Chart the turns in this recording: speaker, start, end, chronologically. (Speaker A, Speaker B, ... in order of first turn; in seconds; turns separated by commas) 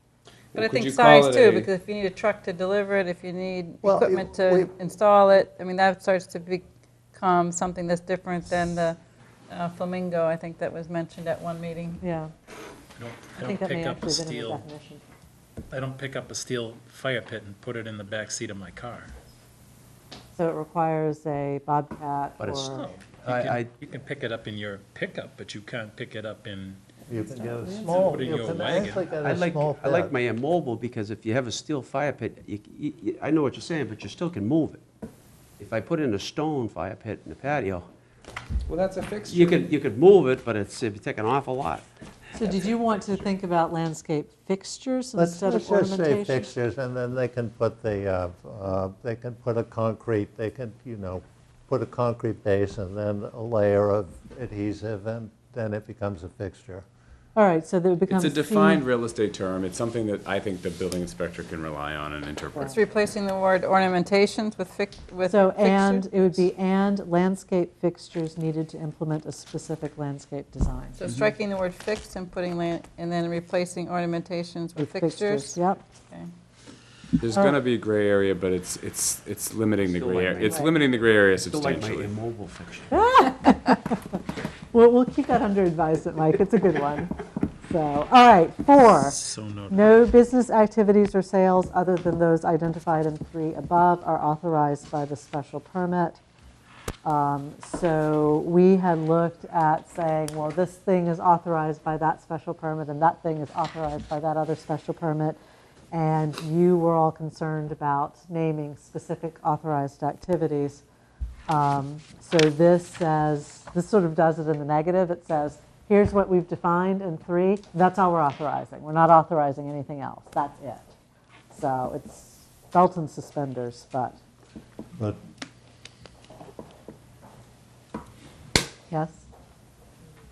Speaker A: 0.5-1.7, Speaker B: 0.5-9.0, Speaker C: 3.8-4.7, Speaker B: 9.5-12.0, Speaker D: 12.0-12.3, Speaker E: 13.0-14.6, Speaker D: 13.4-15.0, Speaker E: 15.7-19.1, Speaker D: 20.4-22.9, Speaker E: 22.7-26.8, Speaker F: 23.2-23.7, Speaker C: 27.1-30.1, Speaker E: 27.5-29.1, Speaker F: 29.2-34.8, Speaker F: 35.6-37.9, Speaker A: 38.7-39.6, Speaker F: 39.3-41.9, Speaker D: 42.4-46.5, Speaker C: 45.2-56.9, Speaker D: 57.4-58.8, Speaker A: 58.1-62.8, Speaker B: 62.7-66.4, Speaker D: 65.3-71.0, Speaker B: 71.0-75.6, Speaker D: 74.8-75.8, Speaker A: 77.2-82.2, Speaker F: 79.9-80.7, Speaker F: 81.4-83.0, Speaker D: 82.9-84.0, Speaker D: 84.7-89.2, Speaker E: 89.0-89.8, Speaker D: 89.7-96.2, Speaker D: 97.0-105.4, Speaker D: 105.9-110.8, Speaker D: 111.5-120.9, Speaker D: 121.5-124.2, Speaker D: 128.9-129.2